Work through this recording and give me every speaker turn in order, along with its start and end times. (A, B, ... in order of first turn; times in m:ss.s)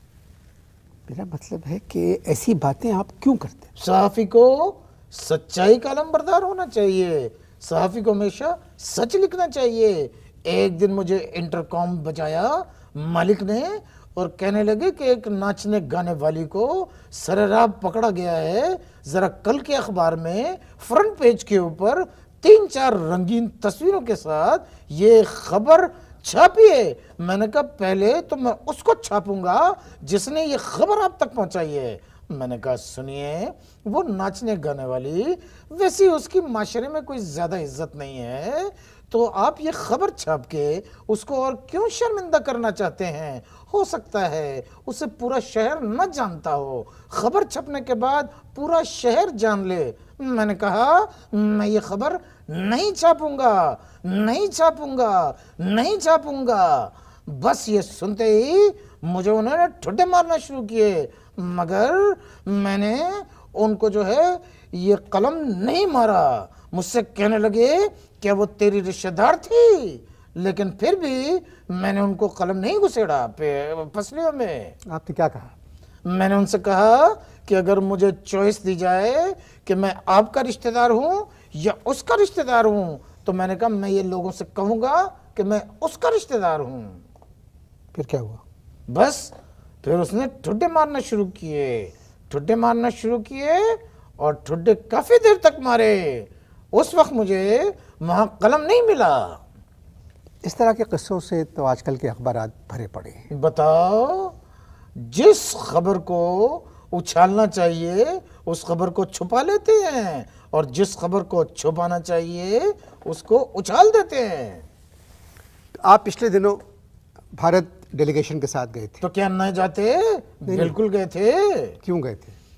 0:01.1-0:03.6 A
0:03.8-1:14.8 B
1:14.9-1:15.5 A
1:16.0-1:27.0 B
1:27.9-1:28.4 A
1:28.9-1:29.3 B
1:29.8-1:39.4 B
1:40.4-1:43.2 A
1:43.3-1:44.3 B
1:45.0-1:54.6 B
1:55.8-1:56.6 A
1:57.4-1:59.0 A
1:59.0-2:01.8 B
2:00.5-2:00.8 A
2:01.8-2:02.3 A